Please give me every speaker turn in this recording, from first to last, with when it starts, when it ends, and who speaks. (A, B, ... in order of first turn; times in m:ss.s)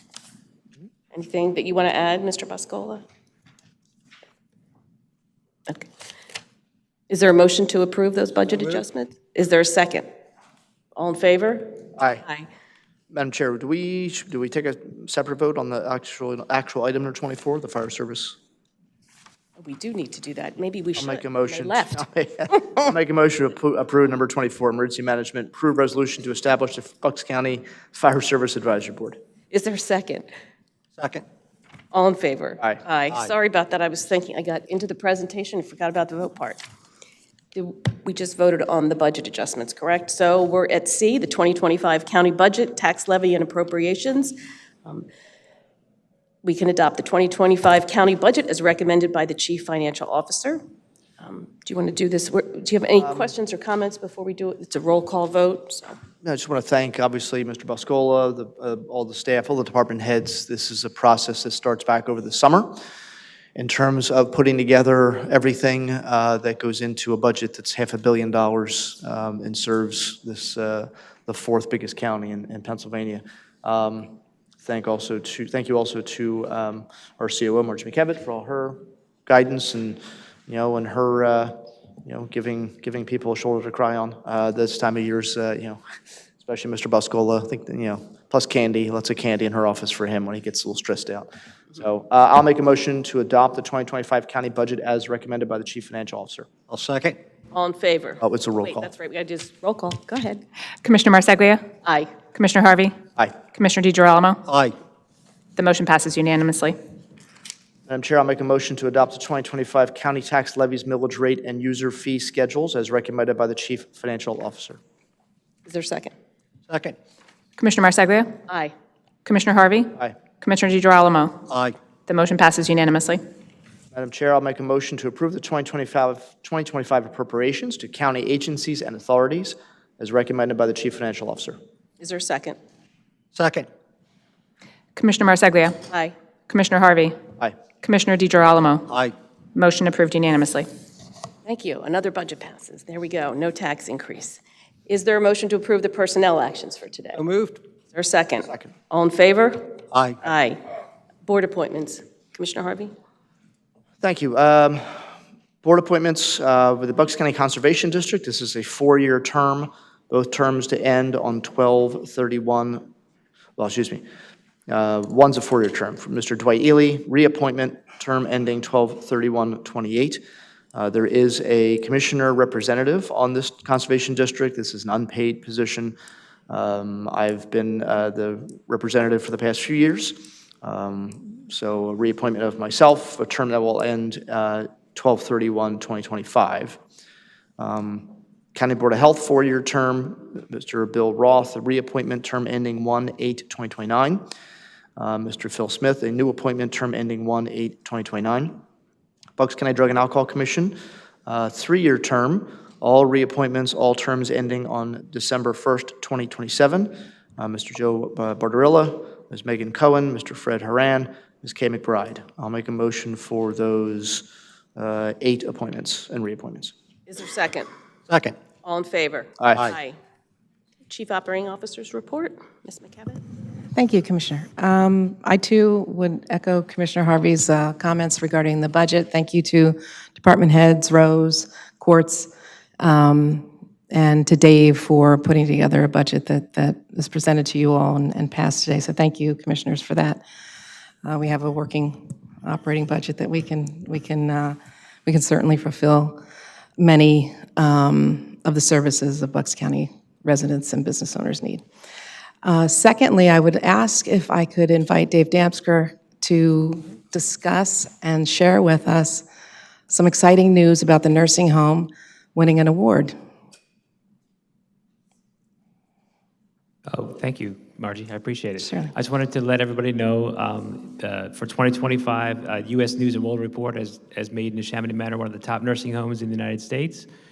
0:01.1-0:03.0 A
0:07.1-0:10.1 A
0:10.9-0:12.5 A
0:12.0-0:12.2 B
0:13.1-0:18.4 B
0:19.6-0:22.0 A
0:21.0-0:29.2 B
0:29.5-0:30.3 A
0:31.0-0:31.2 C
0:31.9-0:36.6 A
0:37.5-0:45.0 A
0:46.4-0:50.6 A
0:51.2-0:56.0 A
0:56.2-1:02.8 B
1:03.5-1:25.8 B
1:26.4-1:36.5 B
1:36.7-1:37.2 C
1:37.5-1:40.4 A
1:38.2-1:38.9 B
1:40.8-1:41.6 D
1:41.8-1:42.1 A
1:42.3-1:42.9 D
1:43.5-1:44.4 D
1:44.5-1:44.7 C
1:45.6-1:46.8 D
1:47.9-1:54.8 B
1:55.6-1:56.1 A
1:56.7-1:57.0 C
1:57.6-1:58.4 D
1:58.5-1:58.7 A
1:59.2-2:01.4 D
2:01.5-2:01.8 C
2:02.1-2:03.2 D
2:03.9-2:11.6 B
2:12.0-2:12.6 A
2:13.3-2:13.7 C
2:15.0-2:15.8 D
2:15.9-2:16.1 A
2:16.5-2:17.2 D
2:17.8-2:18.9 D
2:18.9-2:19.1 C
2:19.5-2:20.7 D
2:21.4-2:27.2 A
2:27.2-2:27.6 C
2:27.9-2:30.6 A
2:29.9-2:30.2 C
2:31.2-2:32.9 A
2:34.0-2:35.0 B
2:35.6-2:42.9 B
2:43.6-2:44.0 B
2:44.7-2:50.2 B
2:50.7-2:56.0 B
2:56.5-3:06.8 B
3:07.6-3:14.3 B
3:15.0-3:18.6 B
3:19.4-3:36.7 B
3:37.1-3:37.7 A
3:38.1-3:38.3 C
3:38.6-3:40.0 A
3:40.9-3:43.2 A
3:43.7-4:00.2 E
4:01.0-4:06.2 E
4:06.8-4:11.6 E
4:12.4-4:19.2 E
4:19.9-4:23.1 E
4:26.9-4:37.1 F
4:28.6-4:28.9 E